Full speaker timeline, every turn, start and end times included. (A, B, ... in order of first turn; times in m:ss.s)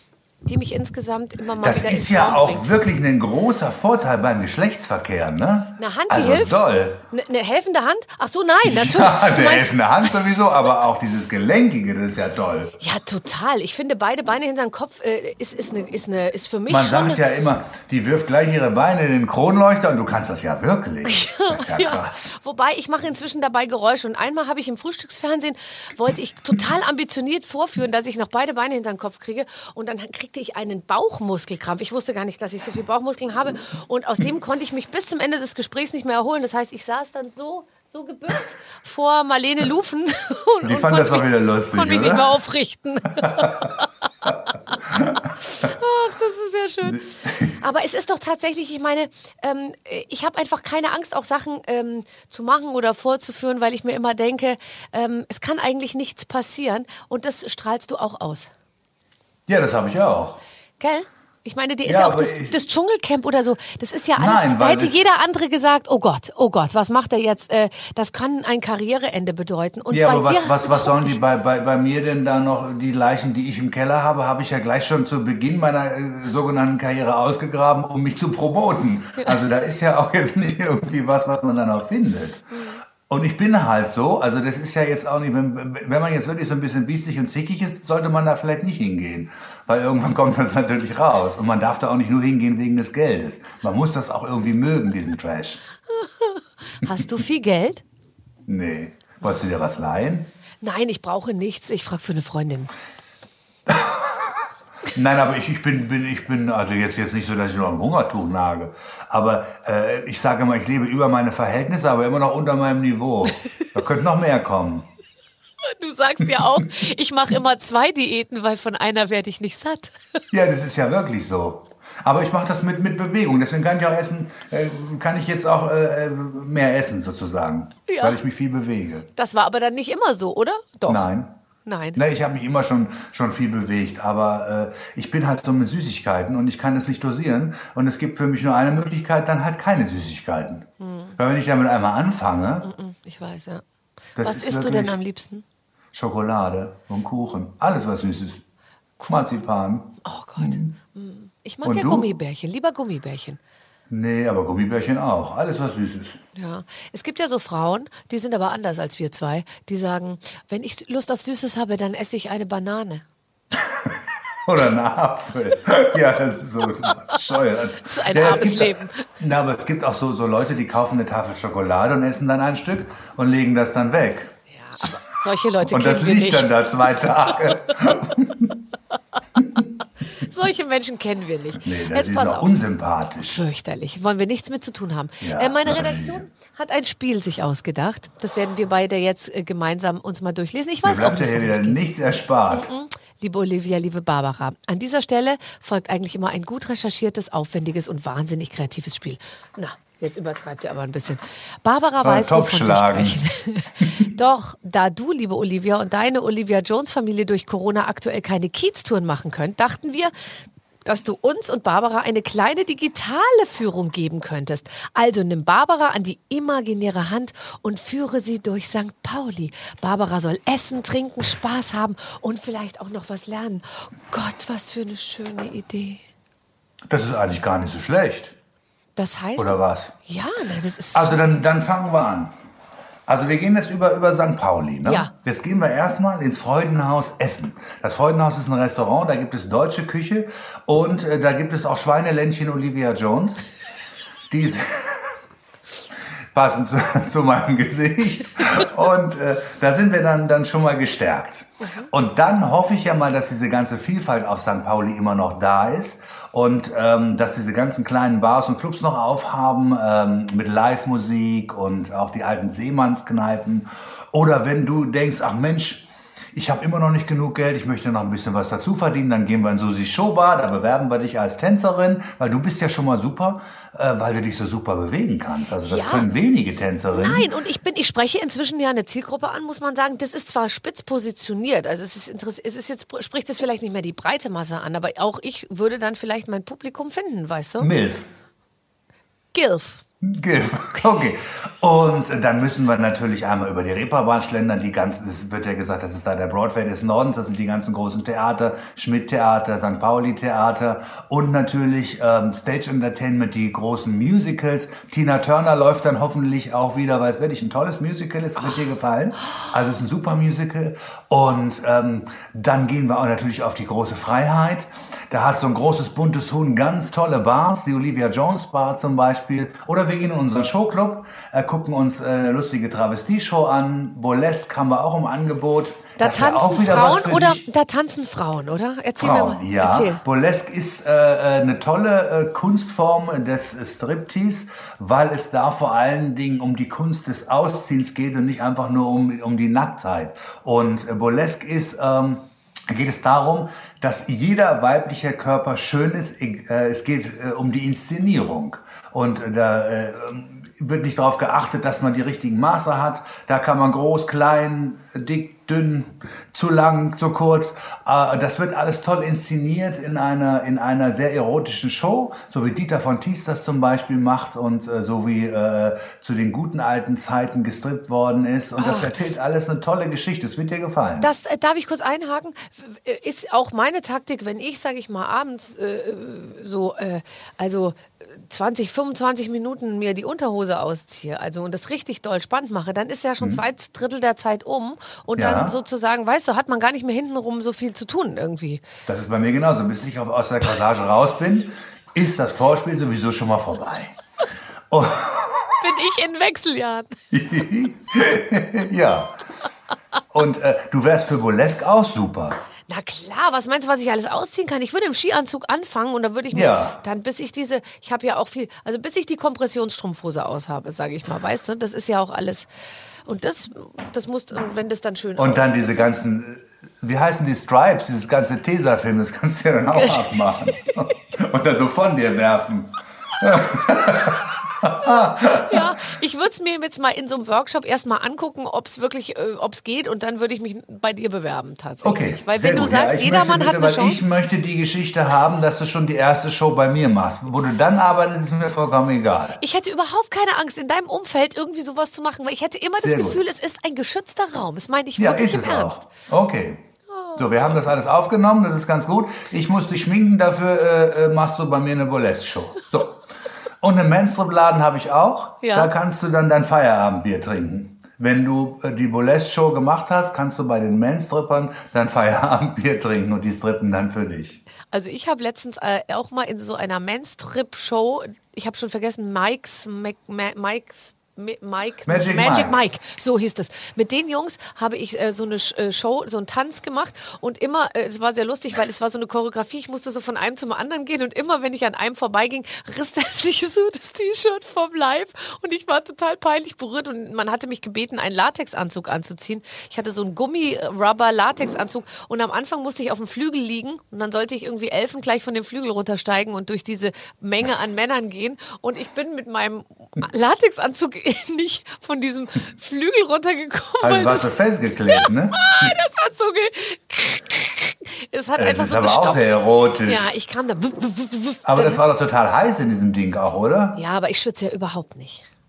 0:00.4-0:02.7 A
0:01.6-0:07.0 B
0:05.8-0:10.2 A
0:08.6-0:12.7 B
0:12.8-0:17.2 A
0:16.7-0:22.2 B
0:21.1-0:43.8 A
0:40.6-0:42.3 B
0:43.3-0:43.6 B
0:44.8-0:45.3 B
0:45.4-0:58.5 A
0:46.8-0:47.6 B
0:59.5-1:00.4 B
1:00.8-1:11.1 A
1:01.8-1:02.6 B
1:04.2-1:05.0 B
1:09.9-1:22.5 B
1:22.5-1:22.8 A
1:23.1-1:35.6 B
1:35.9-1:37.8 A
1:38.5-1:40.3 B
1:40.6-1:42.7 A
1:43.7-1:54.9 B
1:55.6-2:00.2 A
2:00.3-2:09.0 B
2:07.9-2:08.2 A
2:09.2-2:11.0 A
2:10.9-2:11.3 B
2:11.6-2:12.0 A
2:12.0-2:22.7 B
2:20.8-2:21.1 A
2:22.6-2:23.6 A
2:24.2-2:25.0 B
2:24.2-2:25.4 A
2:25.9-2:28.4 B
2:29.0-2:30.7 B
2:30.0-2:33.4 A
2:31.6-2:32.1 B
2:33.9-2:36.2 B
2:36.3-2:43.0 A
2:43.5-2:54.9 B
2:47.8-2:49.0 A
2:54.5-2:56.5 A
2:55.6-2:58.5 B
3:00.0-3:02.6 A
3:01.6-3:03.4 B
3:03.3-3:11.8 A
3:05.2-3:06.2 B
3:10.8-3:12.7 B
3:12.5-3:30.1 A
3:22.0-3:23.2 B
3:30.8-3:46.0 A
3:46.9-3:48.3 B
3:49.0-3:51.2 A
3:49.4-3:49.9 B
3:50.9-3:52.3 B
3:53.1-4:03.5 B
3:54.8-3:55.1 A
4:04.3-4:05.2 B
4:06.3-4:37.3 B
4:11.6-4:11.9 A
4:35.6-4:36.1 A
4:36.9-4:47.7 A
4:47.6-4:48.0 B
4:49.3-4:49.8 A
4:50.0-5:27.4 B
5:26.0-5:30.0 A
5:29.0-6:11.1 B
6:08.6-6:09.1 A
6:11.0-6:28.6 A
6:25.2-6:25.5 B
6:28.9-6:34.0 B
6:34.7-6:35.6 B
6:35.6-6:37.0 A
6:37.1-6:39.2 B
6:40.1-6:42.4 B
6:42.7-6:52.5 A
6:46.3-6:46.8 B
6:53.0-6:55.9 A
6:55.2-7:05.7 B
6:59.7-7:00.3 A
7:05.4-7:14.0 A
7:11.8-7:19.4 B
7:19.4-7:25.8 A
7:22.8-7:23.2 B
7:25.0-7:26.6 B
7:26.9-7:27.6 A
7:27.2-7:33.0 B
7:33.6-7:44.4 B
7:35.4-7:35.7 A
7:44.7-8:24.3 A
7:51.8-7:52.6 B
8:23.8-8:25.7 B
8:24.9-8:31.9 A
8:28.4-8:30.1 B
8:31.4-8:33.8 B
8:33.7-8:35.2 A